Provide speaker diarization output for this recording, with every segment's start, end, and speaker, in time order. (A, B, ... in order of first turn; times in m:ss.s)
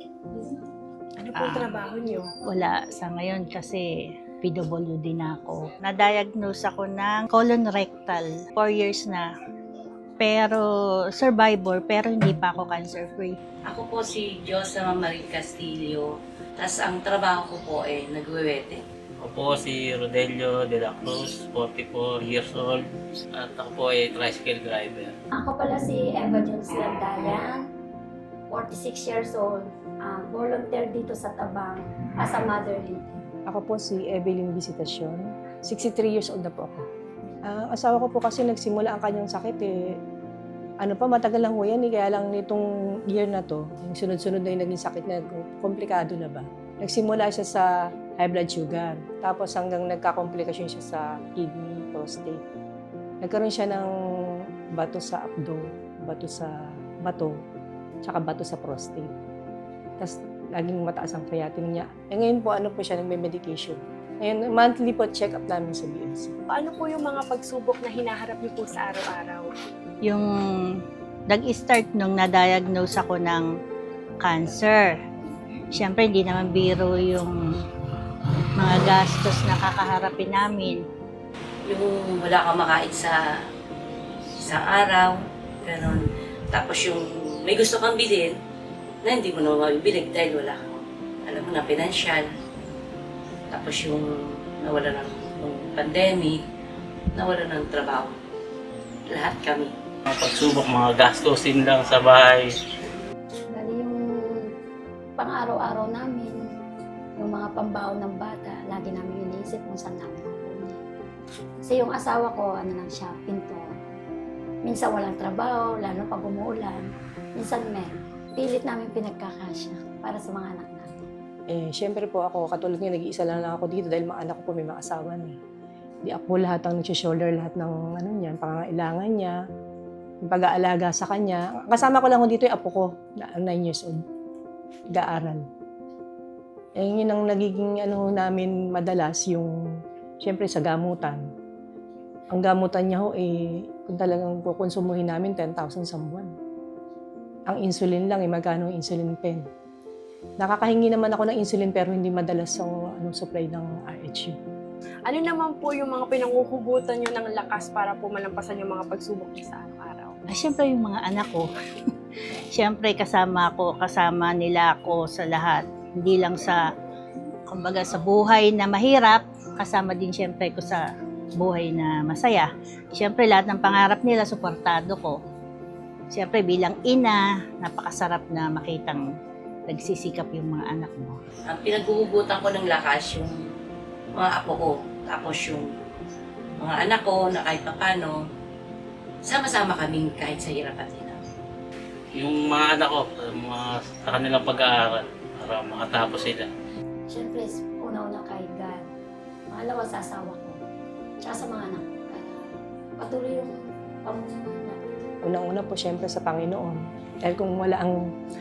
0:01.2-0:02.3 A
0:01.4-0:01.7 B
0:02.5-0:09.3 B
0:10.2-0:10.6 B
0:11.2-0:13.4 B
0:13.7-0:18.8 C
0:19.2-0:22.8 D
0:23.3-0:25.1 D
0:25.4-0:27.6 E
0:28.5-0:33.2 E
0:33.5-0:36.9 F
0:37.5-0:40.0 F
0:40.8-0:52.4 F
0:53.2-0:57.4 F
0:58.0-0:59.1 F
1:00.0-1:06.4 F
1:06.5-1:09.5 A
1:10.0-1:13.5 B
1:14.2-1:14.9 B
1:15.7-1:17.4 B
1:18.6-1:20.8 B
1:21.7-1:23.2 C
1:24.4-1:28.4 C
1:29.0-1:32.3 C
1:33.5-1:34.0 C
1:34.6-1:36.4 C
1:37.2-1:38.1 C
1:39.1-1:39.7 C
1:40.1-1:42.5 D
1:43.5-1:44.5 E
1:45.2-1:46.3 E
1:47.2-1:50.8 E
1:51.6-1:53.7 E
1:54.6-2:01.1 E
2:01.5-2:05.4 F
2:06.0-2:09.4 F
2:10.2-2:14.0 F
2:14.9-2:15.5 F
2:16.8-2:19.6 F
2:20.2-2:21.2 F
2:22.3-2:26.3 F
2:27.5-2:29.5 F
2:30.4-2:34.4 F
2:35.1-2:40.2 A
2:40.3-2:41.5 B
2:42.5-2:46.6 B
2:47.5-2:50.8 B
2:51.4-2:55.2 B
2:56.1-2:59.1 B
2:59.7-3:01.2 B
3:01.5-3:03.4 C
3:04.2-3:05.7 C
3:06.6-3:08.2 C
3:09.2-3:11.2 C
3:12.1-3:16.5 D
3:17.1-3:18.9 E
3:19.5-3:20.6 E
3:21.2-3:23.5 E
3:24.0-3:24.8 E
3:25.2-3:28.0 F